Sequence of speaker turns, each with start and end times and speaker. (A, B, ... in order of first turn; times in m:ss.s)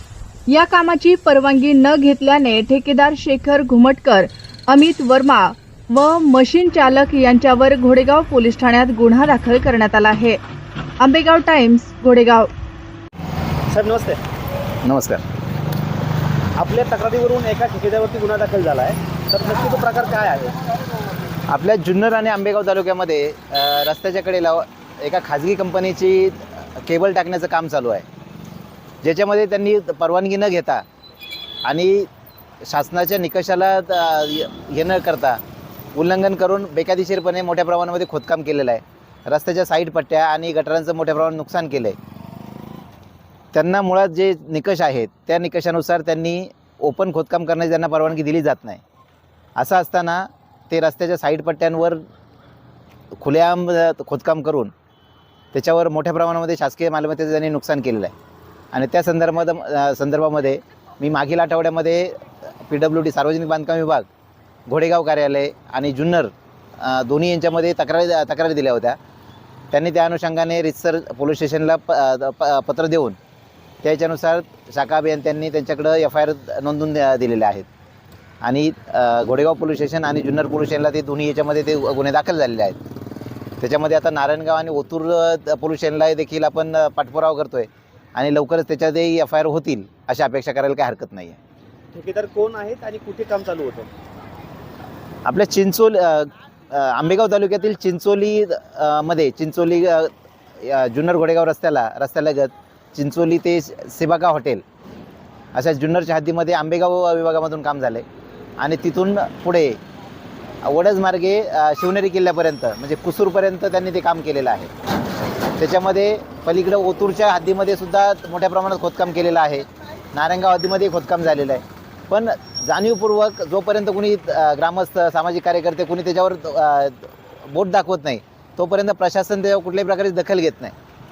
0:00.5-0:10.4 A
0:11.0-0:12.5 A
0:13.7-0:14.2 B
0:14.8-0:15.2 C
0:16.6-0:20.6 B
0:21.5-0:28.0 C
0:29.0-0:30.8 C
0:31.6-0:32.1 C
0:32.6-0:35.4 C
0:35.9-0:42.0 C
0:43.5-0:48.8 C
0:49.6-0:52.0 C
0:53.1-0:54.7 C
0:55.5-0:58.1 C
0:58.7-1:04.1 C
1:04.6-1:09.0 C
1:09.7-1:13.2 C
1:13.8-1:17.7 C
1:18.4-1:22.8 C
1:23.6-1:31.4 C
1:31.9-1:33.9 B
1:35.2-1:44.6 C
1:45.5-1:48.0 C
1:48.6-1:49.8 C
1:50.6-1:54.7 C
1:55.6-2:10.7 C